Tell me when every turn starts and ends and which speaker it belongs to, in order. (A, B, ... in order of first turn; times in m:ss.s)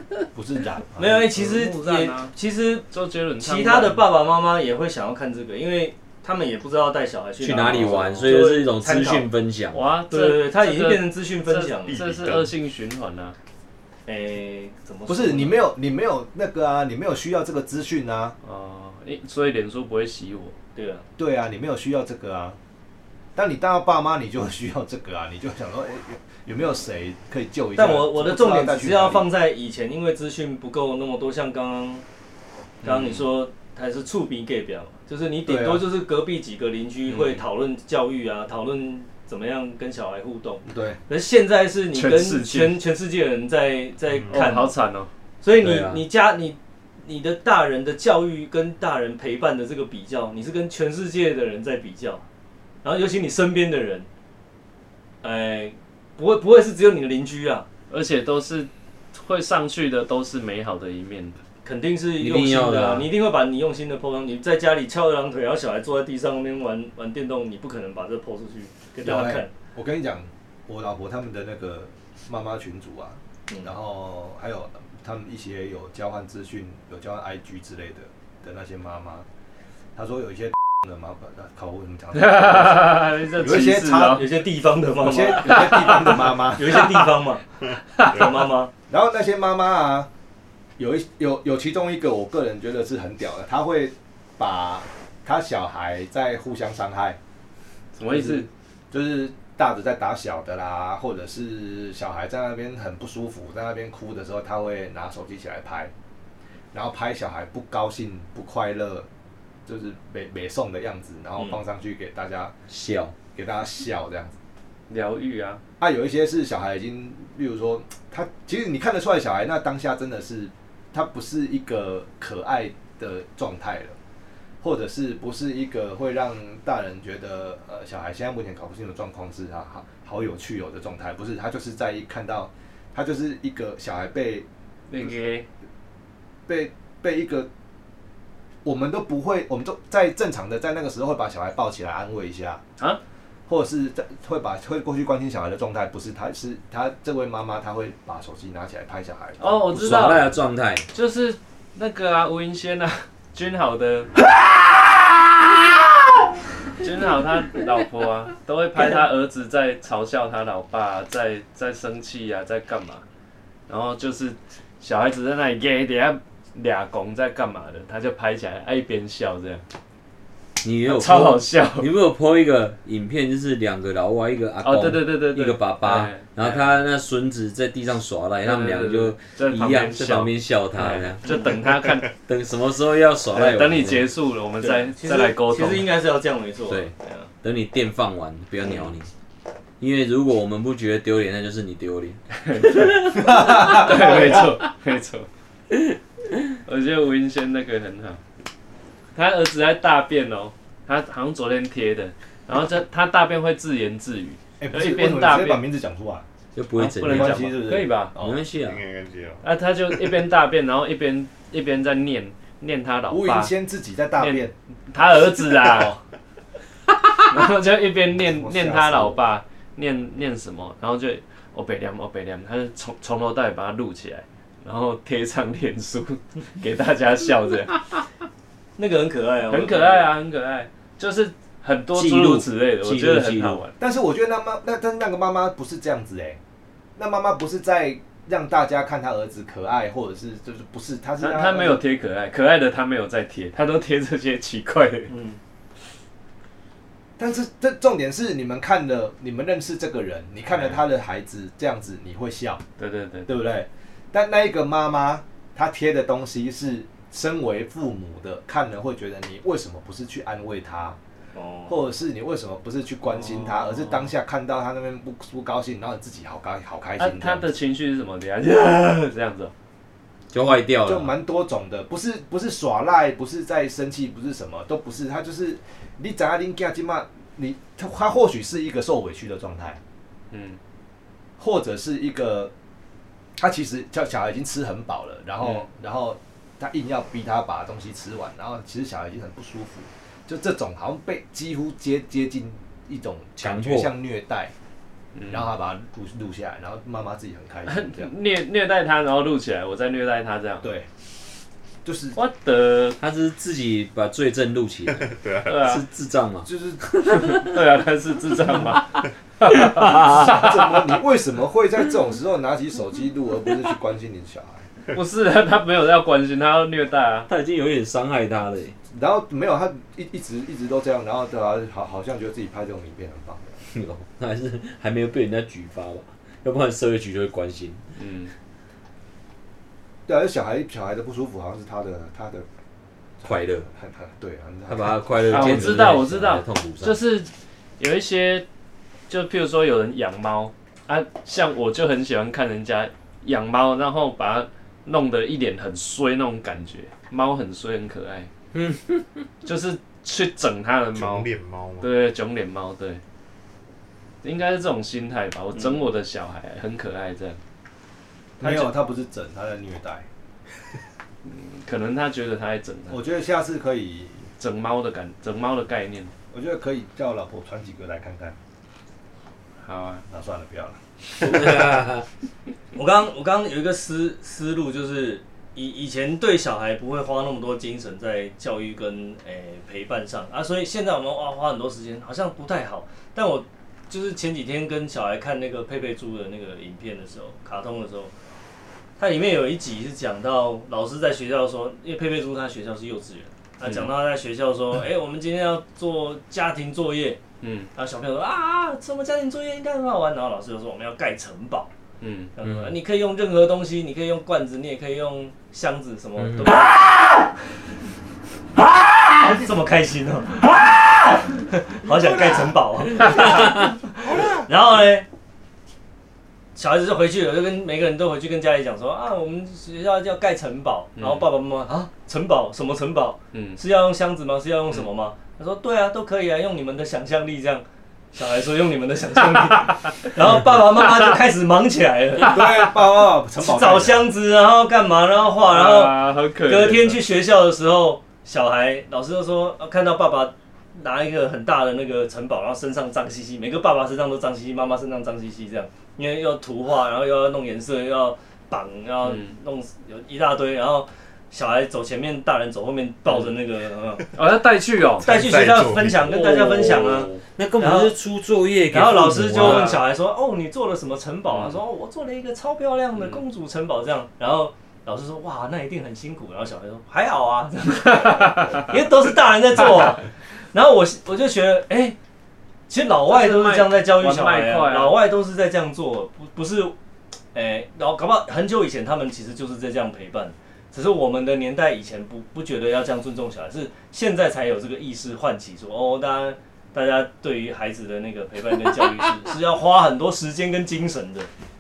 0:00.3-0:01.3 A
0:01.0-0:02.9 B
0:01.4-0:02.3 C
0:02.9-0:04.0 C
0:03.4-0:09.3 B
0:07.4-0:09.8 D
0:07.8-0:08.4 C
0:09.7-0:13.4 C
0:10.1-0:12.0 B
0:11.9-0:12.5 E
0:14.1-0:15.6 B
0:15.1-0:18.4 A
0:18.4-0:20.6 C
0:20.8-0:21.1 B
0:21.2-0:22.6 A
0:23.4-0:29.3 A
0:27.8-0:32.0 B
0:32.8-0:44.7 B
0:32.8-0:33.2 C
0:35.4-0:35.8 A
0:37.1-0:37.4 C
0:40.6-0:41.0 A
0:41.9-0:42.8 C
0:44.3-0:45.1 C
0:45.4-0:52.2 B
0:45.6-0:46.0 D
0:52.8-0:54.1 B
0:55.2-0:57.7 B
0:57.9-1:01.4 C
1:01.6-1:09.5 B
1:02.2-1:03.1 D
1:09.0-1:19.3 A
1:20.0-1:24.3 A
1:22.1-1:24.3 C
1:24.1-1:27.5 B
1:25.0-1:27.0 A
1:25.5-1:26.4 C
1:28.0-1:28.7 B
1:28.9-1:30.1 A
1:30.8-1:37.2 A
1:38.0-1:38.5 C
1:38.1-1:45.9 A
1:46.7-1:49.1 A
1:49.7-1:52.6 A
1:52.7-1:53.2 D
1:53.3-1:54.4 A
1:54.9-1:55.6 C
1:55.8-2:04.0 A
2:04.6-2:14.5 A
2:14.9-2:15.5 C
2:16.5-2:17.5 A
2:18.6-2:22.6 A
2:23.5-2:29.7 A
2:29.4-2:30.3 C
2:29.7-2:30.9 D
2:30.9-2:34.1 C
2:36.8-2:43.0 C
2:43.7-2:49.6 C
2:50.6-3:01.3 D
2:50.9-2:51.9 C
2:54.6-2:56.8 C
2:58.4-3:02.1 C
3:01.2-3:01.6 B
3:02.2-3:04.1 D
3:03.3-3:05.9 C
3:04.6-3:07.3 B
3:06.7-3:09.1 D
3:09.8-3:14.4 D
3:12.4-3:15.3 C
3:13.2-3:14.5 A
3:16.7-3:18.2 C
3:19.2-3:25.6 C
3:24.6-3:26.2 A
3:26.6-3:27.5 D
3:26.8-3:28.1 C
3:27.0-3:28.4 A
3:28.2-3:28.8 D
3:28.6-3:29.5 E
3:29.4-3:33.5 C
3:33.1-3:34.5 A
3:34.2-3:36.0 C
3:35.5-3:36.0 A
3:37.2-3:48.0 C
3:38.1-3:39.2 A
3:48.8-3:50.1 B
3:49.5-3:53.8 C
3:51.9-3:53.6 D
3:53.8-3:56.4 A
3:57.0-4:01.8 A
4:01.2-4:05.1 C
4:05.1-4:05.4 B
4:07.2-4:12.6 A
4:10.5-4:10.8 C
4:12.8-4:13.3 C
4:13.3-4:21.0 A
4:21.3-4:21.8 B
4:21.7-4:27.5 A
4:23.1-4:24.1 C
4:27.0-4:29.5 C
4:30.3-4:31.1 D
4:30.8-4:39.8 A
4:40.3-4:40.6 C
4:41.4-4:42.5 A
4:43.4-4:54.5 A
4:45.4-4:45.7 C
4:53.4-4:53.9 D
4:55.2-4:55.5 C
4:55.3-4:58.1 A
4:57.7-5:00.7 C
5:00.6-5:00.9 A
5:01.8-5:02.2 A
5:02.2-5:03.0 C
5:03.0-5:07.6 D
5:05.0-5:05.7 E
5:05.5-5:05.8 C
5:06.4-5:06.9 A
5:07.1-5:10.7 C
5:09.5-5:10.3 D
5:09.9-5:14.7 A
5:14.9-5:17.3 C
5:17.3-5:18.8 D
5:18.9-5:23.6 A
5:23.7-5:27.8 D
5:28.0-5:28.3 C
5:30.1-5:32.5 A
5:33.2-5:36.0 A
5:33.2-5:33.7 D
5:34.7-5:37.0 D
5:35.3-5:38.5 C
5:39.1-5:48.3 C
5:48.5-5:49.2 D
5:49.4-5:51.3 C
5:50.9-5:51.9 E
5:51.8-5:53.0 C
5:54.2-5:57.4 C
5:58.4-6:00.1 A
5:58.4-5:58.7 C
6:01.2-6:03.0 C
6:02.9-6:04.3 A
6:04.4-6:06.1 C
6:06.3-6:08.4 A
6:09.6-6:10.0 C
6:10.1-6:10.8 A
6:11.2-6:12.1 D
6:12.7-6:28.1 B
6:29.0-6:37.2 B
6:33.6-6:33.9 C
6:37.4-6:37.7 C
6:37.8-6:41.7 B
6:42.0-6:42.3 C
6:42.4-6:47.3 B
6:42.4-6:42.8 D
6:46.2-6:46.6 D
6:48.7-6:55.1 B
6:56.6-7:12.7 B
7:01.0-7:01.3 C
7:03.3-7:03.6 C
7:12.2-7:14.1 A
7:13.4-7:34.1 B
7:15.4-7:17.0 C
7:29.0-7:29.3 C
7:34.1-7:35.1 C
7:35.0-7:36.3 E
7:35.0-7:38.0 B
7:36.1-7:37.2 C
7:37.4-7:39.7 D
7:38.7-7:52.0 B
7:39.3-7:39.8 C
7:41.3-7:41.6 C
7:43.0-7:43.2 C
7:52.7-7:56.8 B
7:53.1-7:55.0 C
7:57.3-8:11.3 B